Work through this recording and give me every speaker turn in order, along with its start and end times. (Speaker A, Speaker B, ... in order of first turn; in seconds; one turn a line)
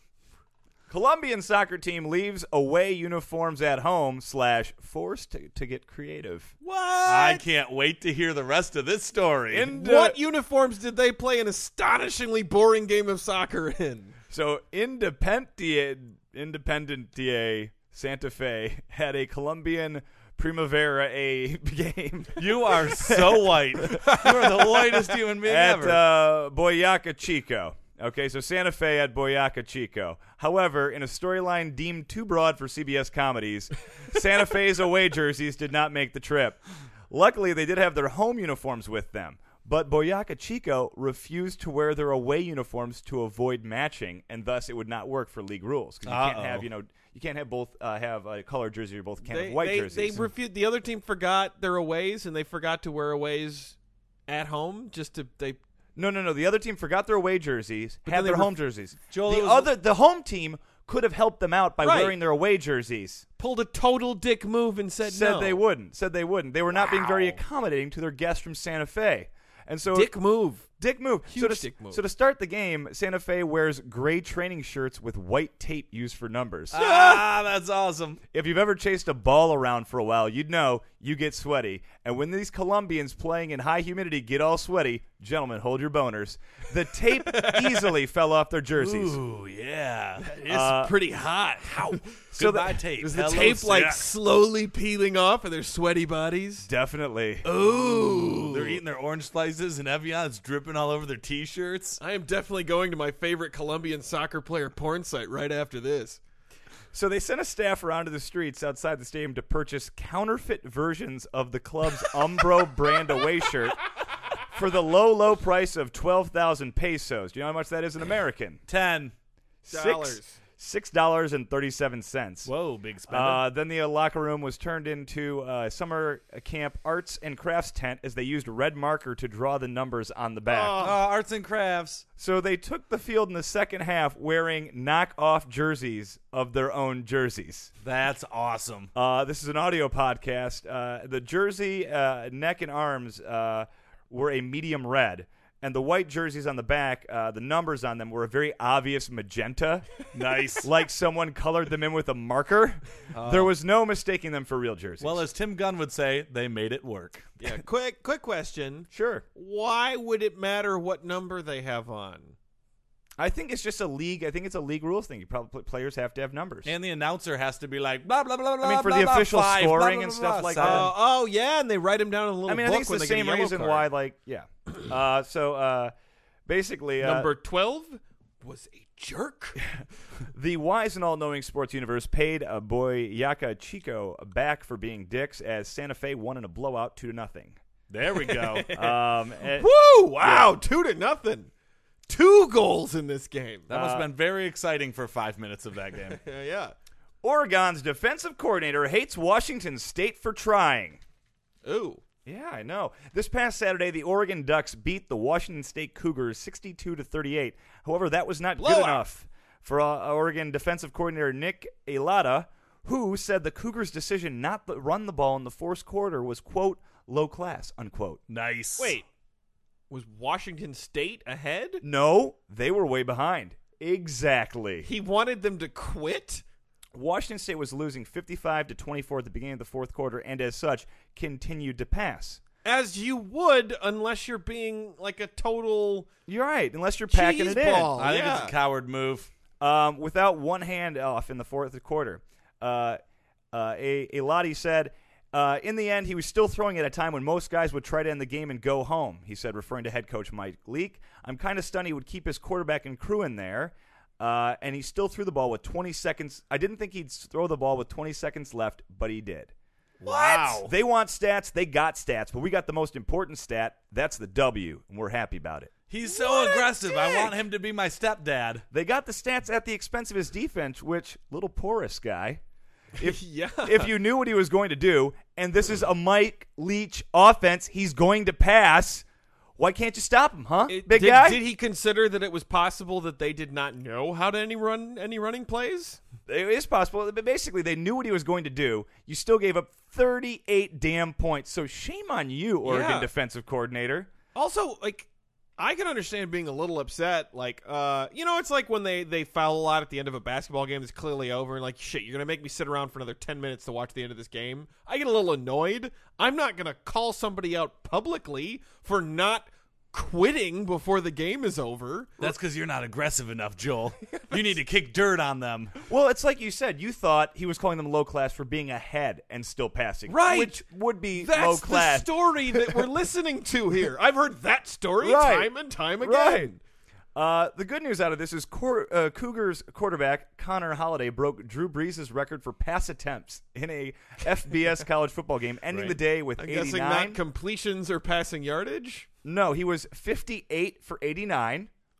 Speaker A: 0.9-6.5
Speaker B: 6.6-7.5
Speaker C: 7.1-9.7
Speaker A: 9.5-10.2
Speaker B: 9.7-14.2
Speaker A: 14.3-24.3
Speaker C: 22.4-26.0
Speaker B: 23.9-24.5
Speaker A: 25.4-50.3
Speaker C: 46.1-46.7
Speaker B: 49.2-53.8
Speaker B: 54.3-55.6
Speaker A: 56.0-63.2
Speaker B: 58.1-58.5
Speaker C: 59.1-59.7
Speaker B: 61.8-62.2
Speaker B: 63.4-65.6
Speaker A: 65.1-70.1
Speaker B: 66.7-67.4
Speaker B: 69.9-70.7
Speaker A: 70.8-76.7
Speaker B: 71.3-72.0
Speaker C: 76.7-78.2
Speaker B: 76.7-77.3
Speaker A: 78.3-89.2
Speaker B: 87.1-87.9
Speaker C: 88.8-90.5
Speaker B: 90.2-92.2
Speaker A: 90.5-91.0
Speaker C: 92.3-94.0
Speaker A: 92.3-92.8
Speaker B: 93.0-96.7
Speaker A: 96.6-97.5
Speaker B: 97.4-98.8
Speaker C: 98.2-102.0
Speaker B: 102.0-106.2
Speaker A: 106.9-113.8
Speaker A: 114.5-118.6
Speaker C: 118.7-119.1
Speaker A: 119.7-122.5
Speaker B: 119.7-120.4
Speaker C: 122.5-123.4
Speaker A: 123.1-130.9
Speaker B: 130.5-131.0
Speaker C: 130.8-132.0
Speaker A: 132.2-137.7
Speaker C: 137.8-138.9
Speaker A: 138.9-149.9
Speaker C: 150.1-150.7
Speaker A: 150.6-155.2
Speaker C: 153.1-153.5
Speaker C: 155.0-157.3
Speaker B: 157.4-162.4
Speaker A: 158.9-159.2
Speaker A: 163.2-166.7
Speaker C: 166.7-170.9
Speaker A: 168.6-170.9
Speaker B: 170.6-173.9
Speaker A: 172.5-175.9
Speaker A: 176.5-177.3
Speaker B: 177.0-179.7
Speaker A: 179.8-187.6
Speaker C: 187.9-188.7
Speaker B: 188.2-191.5
Speaker A: 188.7-189.7
Speaker A: 190.2-190.6
Speaker B: 192.1-194.1
Speaker C: 193.7-196.2
Speaker B: 196.1-196.7
Speaker A: 197.2-201.0
Speaker B: 201.6-202.0
Speaker A: 202.2-218.2
Speaker B: 208.6-209.0
Speaker C: 218.3-219.0
Speaker B: 218.8-219.0
Speaker B: 219.9-221.8
Speaker A: 221.8-224.9
Speaker B: 224.8-226.4
Speaker A: 226.9-232.4
Speaker B: 232.6-236.1
Speaker A: 236.3-237.9
Speaker B: 237.1-238.6
Speaker C: 238.0-239.3
Speaker A: 239.6-243.0
Speaker A: 243.5-259.5
Speaker C: 260.0-260.7
Speaker B: 260.0-260.6
Speaker A: 260.1-265.7
Speaker C: 265.9-268.6
Speaker B: 266.1-267.3
Speaker A: 268.7-272.4
Speaker B: 273.0-273.9
Speaker A: 273.0-279.1
Speaker A: 279.6-281.4
Speaker B: 280.7-286.0
Speaker A: 286.3-294.1
Speaker B: 292.6-293.1
Speaker B: 294.4-312.3
Speaker C: 312.2-315.8
Speaker A: 315.9-322.9
Speaker B: 320.1-320.6
Speaker B: 321.2-326.6
Speaker A: 325.0-326.5
Speaker A: 327.1-337.2
Speaker C: 335.7-336.0
Speaker B: 336.4-339.1
Speaker A: 339.2-341.7